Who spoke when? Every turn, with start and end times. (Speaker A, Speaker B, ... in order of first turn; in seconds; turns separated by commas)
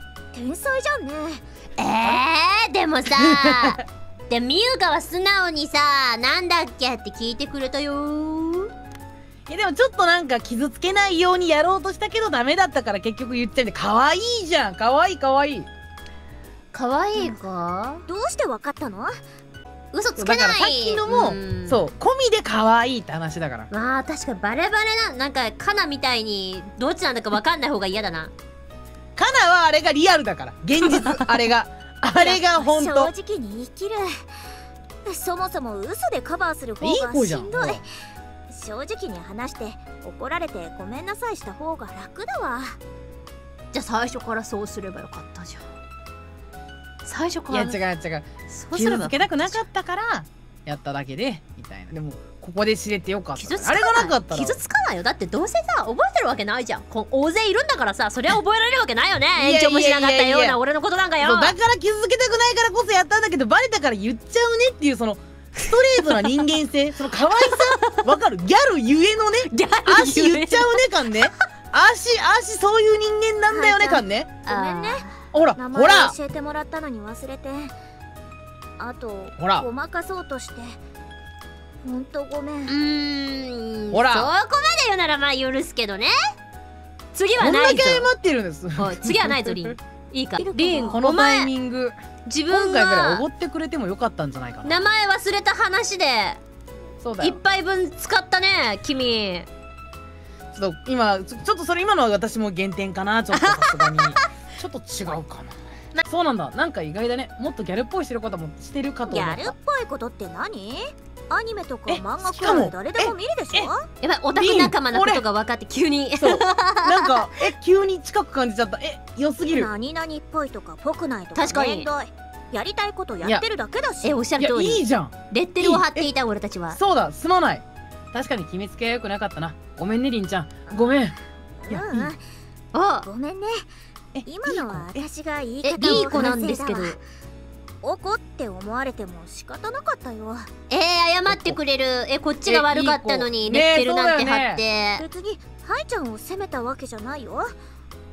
Speaker A: 0.3-1.4, Speaker B: 1.8-8.7, Speaker C: 3.2-3.8, Speaker C: 9.5-15.7, Speaker B: 16.7-18.0, Speaker A: 18.1-19.2, Speaker B: 19.9-21.9, Speaker C: 20.2-23.7, Speaker B: 23.7-28.3, Speaker C: 29.1-33.1, Speaker A: 32.1-34.1, Speaker A: 35.0-37.8, Speaker C: 36.8-37.8, Speaker A: 38.5-42.8, Speaker B: 43.7-45.6, Speaker B: 47.0-47.8, Speaker C: 47.5-54.6, Speaker B: 48.5-49.6, Speaker B: 53.4-61.6, Speaker C: 59.4-60.6, Speaker C: 61.2-74.3, Speaker B: 67.4-68.1, Speaker B: 69.5-70.8, Speaker A: 73.4-77.7, Speaker B: 74.5-75.1, Speaker C: 75.3-76.1, Speaker A: 78.8-80.8, Speaker C: 79.4-79.6, Speaker A: 81.8-82.8, Speaker B: 82.7-86.1, Speaker C: 83.9-84.3, Speaker B: 87.1-88.1, Speaker C: 87.4-89.8, Speaker B: 88.8-91.5, Speaker A: 90.4-91.0, Speaker C: 90.9-91.9, Speaker B: 92.2-93.2, Speaker C: 92.5-94.9, Speaker B: 94.6-96.4, Speaker C: 97.0-97.4, Speaker B: 97.2-99.5, Speaker C: 100.5-109.5, Speaker B: 103.6-104.2, Speaker A: 109.1-113.8, Speaker C: 111.9-113.7, Speaker B: 114.0-117.4, Speaker C: 114.3-115.2, Speaker C: 116.2-119.7, Speaker A: 119.5-124.2, Speaker B: 121.3-121.9, Speaker B: 124.0-126.8, Speaker C: 124.4-126.1, Speaker C: 126.7-131.2, Speaker A: 130.7-131.1, Speaker A: 131.6-132.2, Speaker C: 131.7-132.1, Speaker B: 132.7-133.1, Speaker A: 133.0-133.7, Speaker C: 134.1-135.1, Speaker A: 134.2-137.0, Speaker B: 135.6-137.0, Speaker C: 135.7-136.3, Speaker A: 137.8-140.5, Speaker B: 140.7-145.0, Speaker C: 141.3-141.6, Speaker C: 142.4-144.6, Speaker A: 145.0-147.5